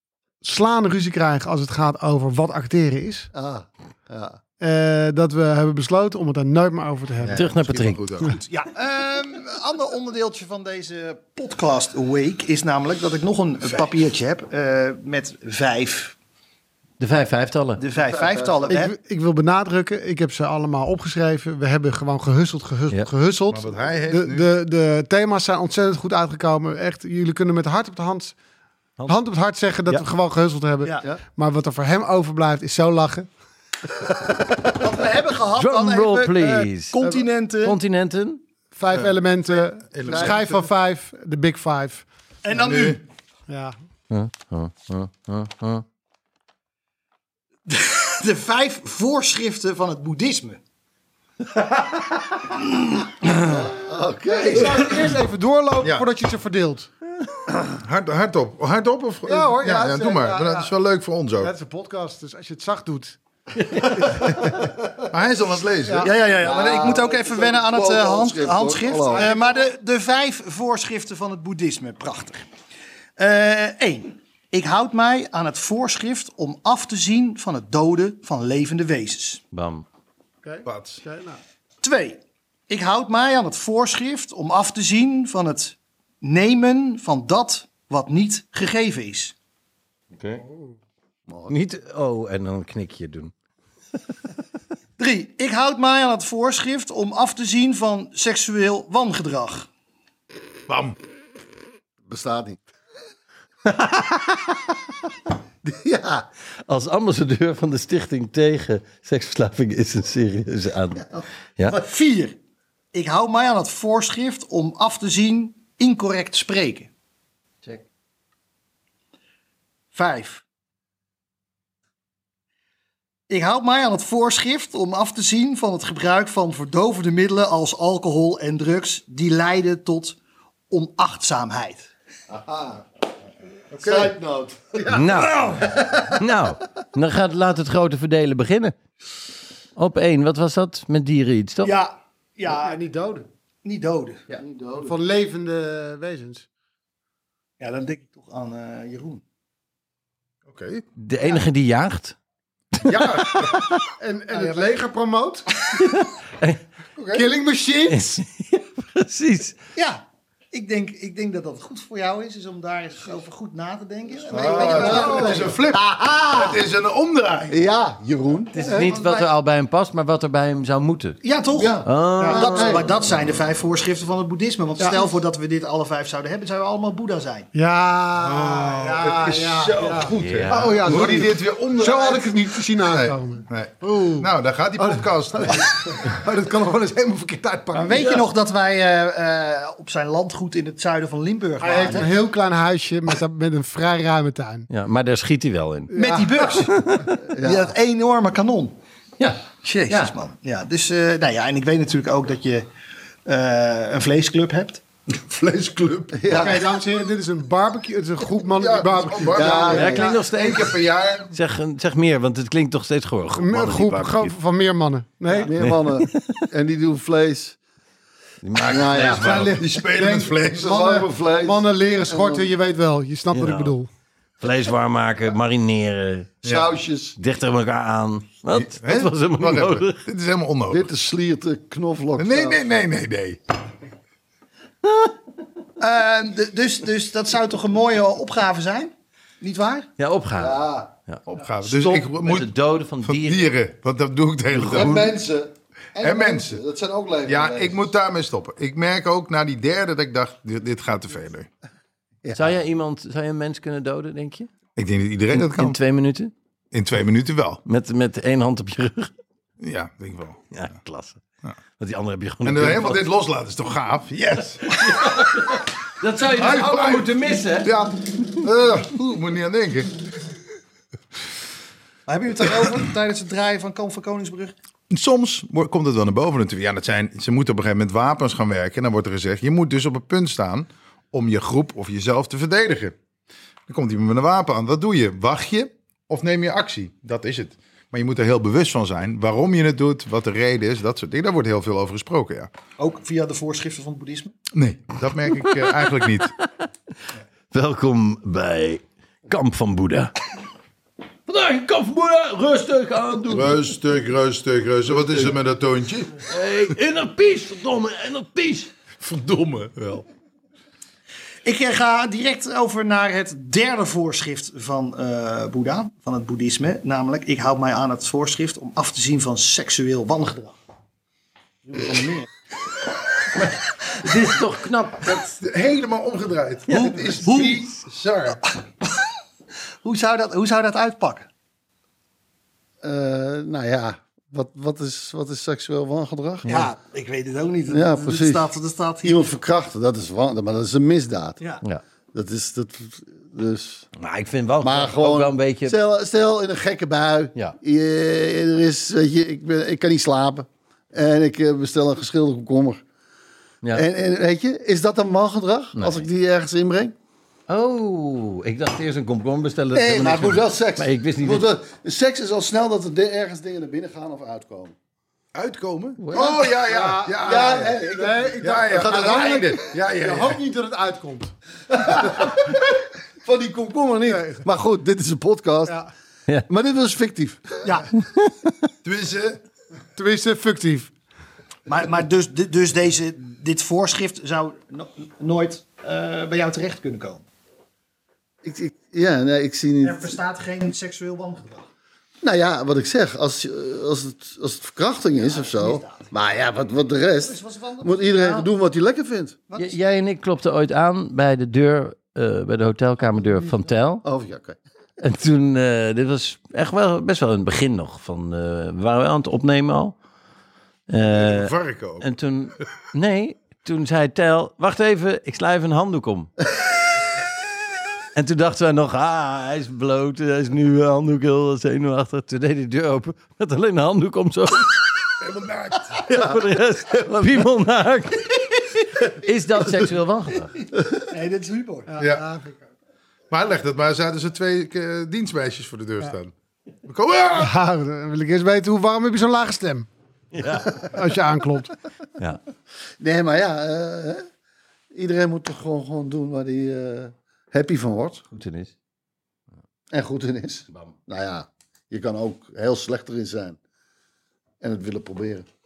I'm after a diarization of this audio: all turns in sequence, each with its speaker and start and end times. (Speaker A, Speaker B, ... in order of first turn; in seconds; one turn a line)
Speaker A: 0.4-3.3
Speaker B: 3.3-4.4
Speaker A: 4.6-7.5
Speaker C: 7.2-8.4
Speaker D: 7.3-8.0
Speaker E: 8.4-16.1
Speaker D: 17.0-17.8
Speaker E: 17.8-18.9
Speaker B: 18.0-18.7
Speaker A: 18.7-28.3
Speaker C: 23.5-24.5
Speaker A: 29.1-33.3
Speaker E: 34.7-37.8
Speaker D: 35.5-37.0
Speaker D: 37.6-38.4
Speaker A: 38.7-42.0
Speaker C: 39.9-40.7
Speaker B: 40.0-40.3
Speaker E: 42.4-43.0
Speaker C: 42.5-43.0
Speaker A: 43.5-43.7
Speaker D: 44.1-45.8
Speaker E: 47.7-50.6
Speaker B: 53.4-54.9
Speaker A: 54.4-56.9
Speaker C: 57.6-61.5
Speaker A: 59.2-60.7
Speaker A: 61.4-63.2
Speaker A: 63.7-64.6
Speaker C: 65.1-66.1
Speaker A: 65.8-66.1
Speaker E: 66.0-72.5
Speaker B: 66.4-69.3
Speaker A: 69.1-69.5
Speaker E: 73.2-79.4
Speaker D: 79.5-79.8
Speaker A: 80.4-81.4
Speaker C: 80.6-81.0
Speaker E: 81.8-89.3
Speaker D: 90.2-90.4
Speaker A: 90.4-90.7
Speaker B: 91.3-91.5
Speaker D: 91.5-93.3
Speaker E: 95.0-99.7
Speaker C: 100.7-101.0
Speaker B: 102.1-102.6
Speaker D: 103.6-104.6
Speaker B: 105.6-106.2
Speaker D: 106.7-111.0
Speaker E: 111.6-112.4
Speaker E: 112.9-116.9
Speaker E: 119.9-120.4
Speaker E: 123.3-130.2
Speaker E: 130.7-131.9
Speaker B: 132.3-132.8
Speaker C: 133.8-134.1
Speaker B: 133.8-135.8
Speaker D: 134.9-138.7
Speaker E: 135.3-135.8
Speaker D: 139.8-141.8
Speaker E: 141.6-142.8
Speaker A: 142.5-143.3
Speaker E: 143.6-144.2
Speaker B: 144.3-144.9
Speaker A: 144.8-146.4
Speaker E: 147.6-149.2
Speaker C: 150.5-150.8
Speaker D: 151.0-152.2
Speaker D: 152.8-153.8
Speaker C: 152.8-153.6
Speaker A: 154.0-155.5
Speaker E: 154.3-154.7
Speaker D: 155.8-156.6
Speaker C: 157.0-157.2
Speaker A: 157.1-158.2
Speaker D: 157.9-159.6
Speaker E: 159.7-165.6
Speaker B: 164.3-166.6
Speaker C: 164.3-167.6
Speaker B: 167.5-168.9
Speaker D: 168.5-171.2
Speaker E: 168.6-169.3
Speaker E: 171.2-177.5
Speaker B: 171.5-172.9
Speaker D: 171.8-172.8
Speaker A: 172.2-172.5
Speaker A: 174.8-175.1
Speaker A: 177.5-188.2
Speaker C: 178.2-186.2
Speaker D: 180.2-181.1
Speaker E: 187.7-192.1
Speaker A: 191.6-194.7
Speaker B: 191.8-192.1
Speaker D: 194.7-195.9
Speaker A: 195.9-196.3
Speaker E: 195.9-196.8
Speaker D: 196.6-197.2
Speaker B: 197.3-197.7
Speaker E: 197.3-198.8
Speaker D: 199.2-200.1
Speaker E: 199.6-202.7
Speaker E: 203.2-204.8
Speaker C: 205.1-206.4
Speaker B: 206.1-206.7
Speaker A: 206.3-209.9
Speaker C: 208.5-211.3
Speaker B: 209.3-210.2
Speaker D: 209.7-210.8
Speaker D: 211.3-214.3
Speaker A: 213.4-215.5
Speaker D: 215.4-216.4
Speaker B: 215.4-217.6
Speaker D: 218.4-219.6
Speaker B: 218.6-219.6
Speaker C: 218.8-220.9
Speaker A: 219.2-223.9
Speaker B: 220.5-222.5
Speaker D: 223.3-223.7
Speaker D: 224.4-226.4
Speaker C: 226.4-226.7
Speaker B: 226.4-227.2
Speaker D: 227.2-230.0
Speaker C: 228.5-230.9
Speaker B: 230.7-232.8
Speaker C: 232.2-233.4
Speaker D: 234.8-235.1
Speaker E: 235.8-239.9
Speaker D: 240.0-243.5
Speaker B: 240.4-240.9
Speaker C: 241.3-242.5
Speaker C: 243.0-245.1
Speaker D: 244.5-245.0
Speaker B: 244.6-247.9
Speaker C: 246.0-246.6
Speaker C: 247.3-251.5
Speaker B: 252.2-252.6
Speaker D: 252.3-254.5
Speaker C: 254.8-255.8
Speaker D: 255.3-256.3
Speaker C: 256.7-257.6
Speaker D: 257.6-259.1
Speaker C: 259.6-260.4
Speaker D: 260.5-261.2
Speaker D: 261.8-263.0
Speaker C: 262.4-265.2
Speaker D: 264.6-267.7
Speaker C: 266.2-269.9
Speaker E: 272.1-274.5
Speaker C: 274.9-282.9
Speaker C: 283.7-292.5
Speaker E: 292.8-294.3
Speaker C: 294.5-296.3
Speaker D: 297.5-300.1
Speaker D: 301.3-303.6
Speaker C: 303.3-306.2
Speaker D: 306.2-308.7
Speaker C: 309.0-310.1
Speaker E: 311.4-320.5
Speaker E: 321.6-322.3
Speaker D: 324.0-325.1
Speaker C: 325.0-328.4
Speaker D: 326.7-327.0
Speaker E: 326.7-327.6
Speaker E: 328.5-329.0
Speaker E: 329.8-331.3
Speaker B: 332.8-336.6
Speaker E: 336.5-339.2
Speaker B: 337.7-341.4
Speaker B: 342.1-343.9
Speaker D: 344.0-345.8
Speaker B: 344.6-352.8
Speaker B: 353.7-356.9
Speaker D: 355.8-356.0
Speaker D: 357.5-361.5
Speaker B: 359.7-364.7
Speaker C: 365.3-367.7
Speaker D: 366.0-366.3
Speaker A: 366.6-371.3
Speaker B: 367.2-369.4
Speaker C: 368.4-370.4
Speaker B: 371.7-372.5
Speaker B: 373.2-375.8
Speaker A: 374.1-374.4
Speaker B: 376.5-377.8
Speaker E: 377.6-377.9
Speaker C: 378.8-379.4
Speaker A: 379.9-380.9
Speaker E: 381.7-387.2
Speaker B: 388.4-390.2
Speaker E: 389.8-391.6
Speaker B: 392.2-399.4
Speaker E: 395.2-396.1
Speaker E: 397.2-398.5
Speaker E: 399.5-399.8
Speaker D: 399.6-404.0
Speaker B: 404.0-404.6
Speaker D: 405.0-409.9
Speaker D: 410.9-416.3
Speaker C: 411.0-412.1
Speaker D: 418.1-424.9
Speaker C: 425.2-426.0
Speaker D: 425.9-430.5
Speaker E: 430.6-431.9
Speaker A: 431.9-432.6
Speaker C: 432.0-432.2
Speaker C: 433.3-436.3
Speaker C: 436.9-437.6
Speaker A: 437.3-439.9
Speaker D: 440.3-440.9
Speaker A: 440.9-441.7
Speaker B: 443.0-444.3
Speaker B: 444.9-448.2
Speaker D: 448.3-448.7
Speaker B: 449.9-453.6
Speaker B: 454.6-455.4